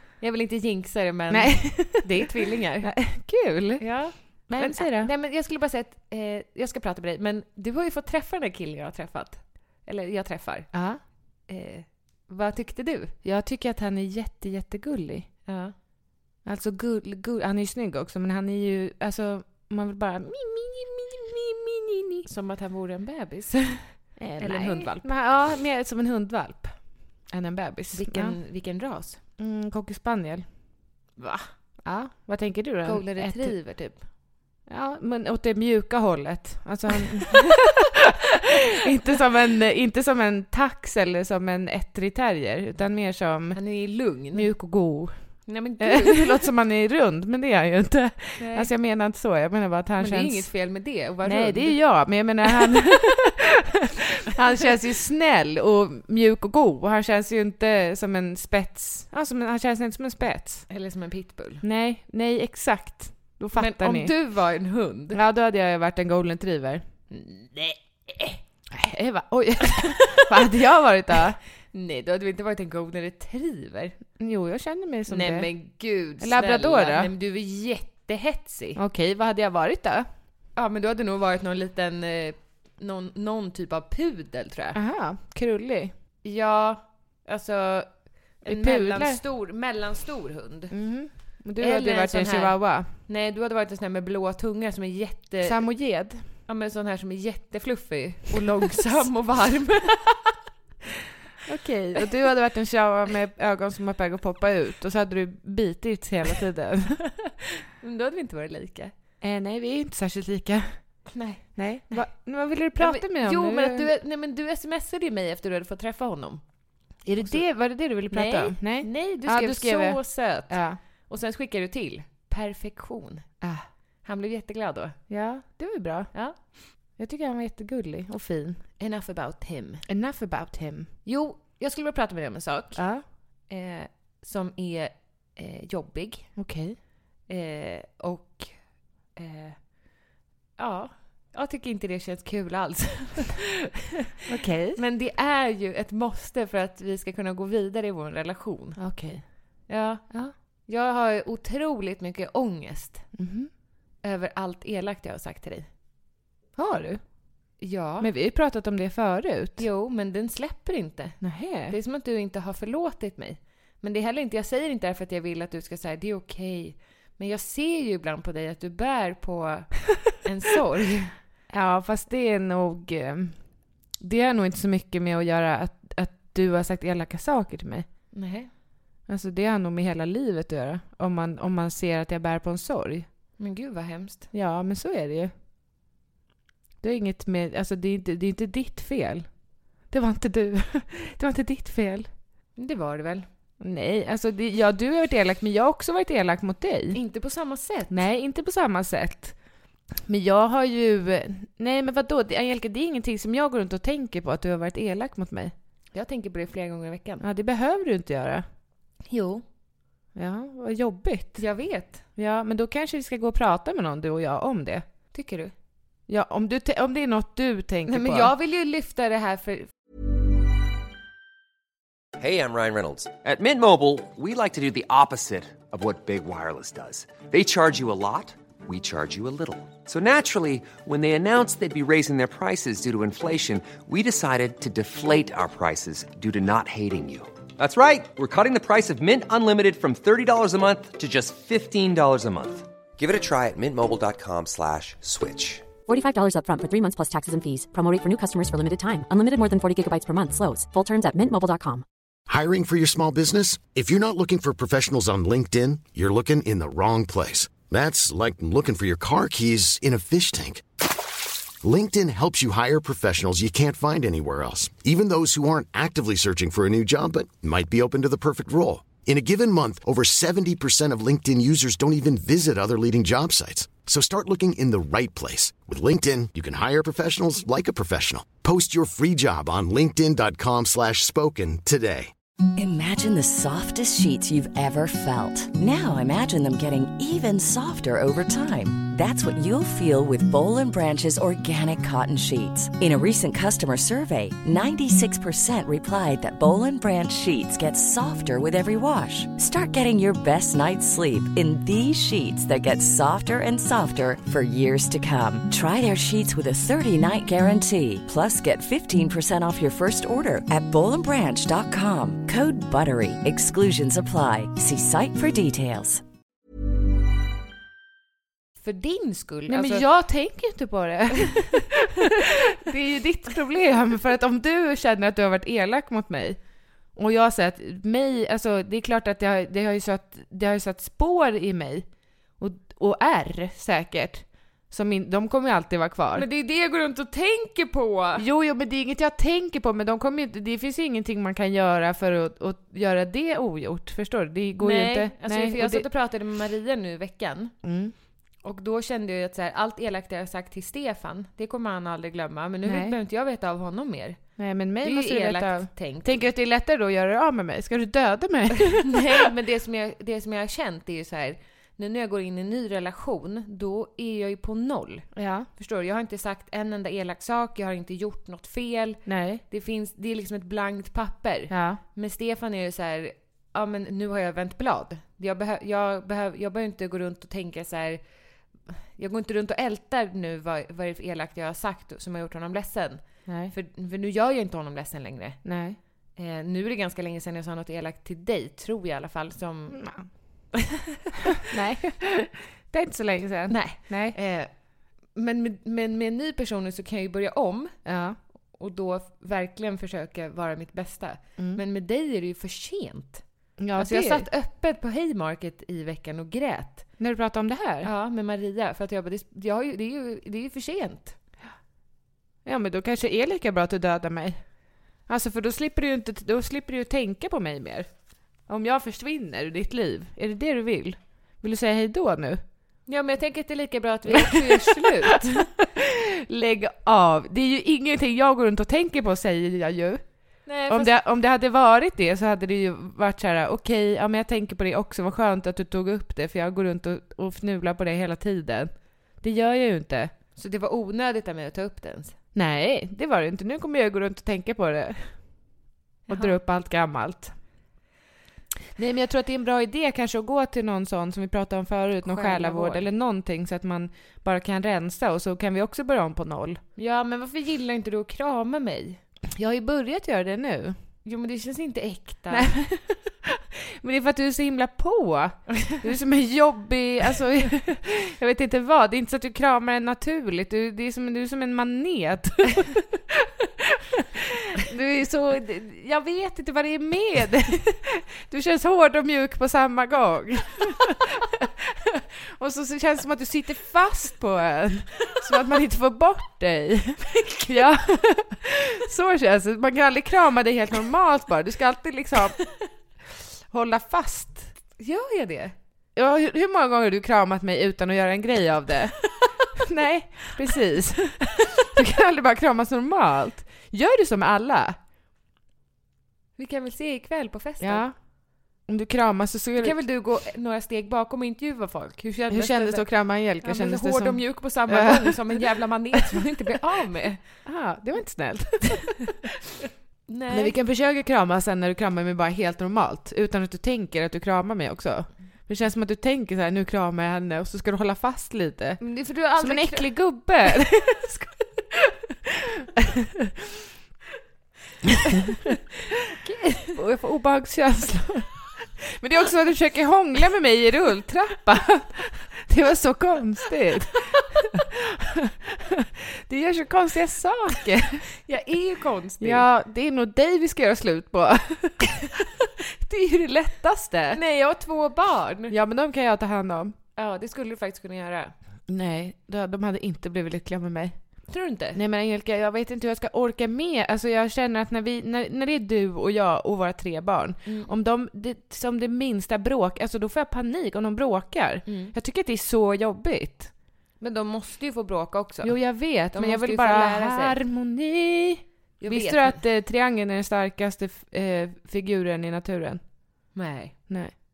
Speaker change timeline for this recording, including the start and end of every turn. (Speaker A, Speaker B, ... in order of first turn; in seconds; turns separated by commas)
Speaker A: 0.2-2.9, Speaker B: 1.3-2.2, Speaker B: 2.8-5.1, Speaker A: 3.8-10.7, Speaker B: 10.7-11.0, Speaker A: 11.5-13.1, Speaker B: 13.2-15.3, Speaker A: 15.4-15.7, Speaker B: 16.4-22.2, Speaker A: 22.2-25.0, Speaker B: 24.2-28.4, Speaker A: 27.9-29.2, Speaker B: 29.4-30.4, Speaker A: 31.2-31.5, Speaker B: 31.8-33.5, Speaker A: 32.8-34.0, Speaker B: 34.7-43.6, Speaker A: 43.5-44.5, Speaker B: 44.3-50.5, Speaker A: 45.5-46.5, Speaker A: 48.4-48.7, Speaker A: 50.0-51.8, Speaker B: 51.2-60.6, Speaker A: 60.7-61.6, Speaker B: 61.6-64.1, Speaker A: 63.5-65.2, Speaker B: 65.1-66.8, Speaker A: 67.1-68.4, Speaker B: 68.7-71.4, Speaker A: 71.7-74.0, Speaker B: 74.2-75.5, Speaker A: 75.1-78.8, Speaker B: 76.2-77.1, Speaker B: 78.8-80.1, Speaker A: 80.5-84.8, Speaker B: 84.7-85.9, Speaker A: 86.2-90.7, Speaker B: 88.5-89.2, Speaker B: 90.7-92.9, Speaker A: 91.6-95.6, Speaker B: 95.4-96.2, Speaker A: 96.5-100.3, Speaker B: 101.4-107.0, Speaker A: 107.3-108.9, Speaker B: 109.2-110.8, Speaker A: 111.1-112.1, Speaker B: 111.6-113.9, Speaker A: 112.8-116.4, Speaker B: 117.0-120.8, Speaker A: 117.2-117.4, Speaker A: 118.1-123.3, Speaker A: 124.0-125.0, Speaker B: 125.1-126.1, Speaker B: 127.0-128.6, Speaker A: 128.8-129.8, Speaker B: 129.9-130.9, Speaker A: 131.0-132.8, Speaker B: 132.8-133.0, Speaker A: 133.5-136.3, Speaker B: 136.4-136.8, Speaker A: 137.3-138.6, Speaker A: 139.1-139.6, Speaker A: 140.6-143.7, Speaker B: 144.3-144.8, Speaker A: 144.7-148.8, Speaker B: 148.8-149.2, Speaker A: 149.7-150.1, Speaker A: 150.7-153.1, Speaker B: 153.2-153.5, Speaker A: 154.0-155.7, Speaker B: 156.6-157.0, Speaker A: 157.6-158.1, Speaker B: 158.0-159.6, Speaker A: 159.6-171.1, Speaker B: 161.2-161.8, Speaker B: 171.5-173.4, Speaker B: 174.0-177.9, Speaker A: 178.1-178.5, Speaker B: 179.1-183.1, Speaker A: 183.4-184.3, Speaker B: 184.3-185.3, Speaker B: 186.8-189.3, Speaker B: 189.9-192.1, Speaker A: 192.6-193.3, Speaker B: 193.6-197.0, Speaker A: 196.9-198.0, Speaker B: 197.9-199.3, Speaker B: 200.1-205.5, Speaker A: 205.9-207.2, Speaker B: 207.2-208.4, Speaker A: 209.1-209.4, Speaker B: 210.2-211.4, Speaker A: 211.4-212.0, Speaker B: 212.2-214.8, Speaker A: 215.1-215.5, Speaker B: 216.1-218.3, Speaker A: 217.9-219.7, Speaker C: 222.2-245.7, Speaker D: 245.8-251.8, Speaker E: 252.3-260.6, Speaker E: 261.6-282.1, Speaker F: 282.6-316.0, Speaker A: 318.6-319.8, Speaker B: 319.5-326.4, Speaker B: 326.9-331.9, Speaker B: 332.4-336.2, Speaker A: 336.1-338.2, Speaker B: 338.2-345.8, Speaker A: 344.6-347.5, Speaker B: 347.6-347.9, Speaker A: 348.4-354.2, Speaker B: 352.6-352.9, Speaker B: 354.4-359.3, Speaker A: 354.8-356.2, Speaker A: 358.7-378.0, Speaker B: 365.1-365.5, Speaker B: 369.1-369.4, Speaker B: 371.5-371.8, Speaker A: 378.7-385.4, Speaker B: 383.3-383.5, Speaker B: 385.4-385.8, Speaker A: 386.1-389.8, Speaker B: 389.7-390.1, Speaker B: 391.3-394.1, Speaker A: 393.5-394.5, Speaker A: 395.1-397.8, Speaker B: 397.9-398.2, Speaker A: 398.5-403.2, Speaker B: 403.6-404.2, Speaker A: 403.8-406.9, Speaker B: 407.0-407.9, Speaker A: 407.8-411.2, Speaker B: 412.4-414.4, Speaker B: 415.1-417.9, Speaker B: 418.5-422.4, Speaker A: 422.9-425.5, Speaker B: 424.1-430.0, Speaker A: 430.4-430.9, Speaker B: 430.7-440.1, Speaker A: 440.4-442.1, Speaker B: 442.3-445.2, Speaker B: 446.1-447.4, Speaker A: 446.1-446.3, Speaker B: 448.8-456.6, Speaker A: 452.0-452.9, Speaker A: 456.8-459.0, Speaker B: 459.4-460.8, Speaker A: 461.0-462.5, Speaker B: 462.3-492.4, Speaker A: 487.2-487.6, Speaker B: 493.5-494.5, Speaker A: 494.8-495.5, Speaker B: 495.9-504.8, Speaker A: 506.4-507.9, Speaker B: 507.6-507.9, Speaker B: 508.7-509.8, Speaker A: 509.6-512.9, Speaker B: 512.3-516.2, Speaker A: 513.4-517.2, Speaker B: 517.4-519.3, Speaker A: 520.1-520.6, Speaker B: 520.3-533.3, Speaker A: 528.8-530.6, Speaker A: 536.2-536.8, Speaker B: 536.7-548.1, Speaker A: 548.2-549.5, Speaker B: 549.2-554.2, Speaker A: 554.1-555.5, Speaker B: 555.5-556.7, Speaker A: 557.0-558.3, Speaker B: 558.7-561.2, Speaker A: 561.3-561.8, Speaker B: 561.7-573.5, Speaker A: 567.5-567.7, Speaker A: 571.6-571.9, Speaker A: 574.0-577.4, Speaker B: 575.4-582.8, Speaker A: 578.8-579.4, Speaker A: 583.3-584.0, Speaker B: 583.9-584.1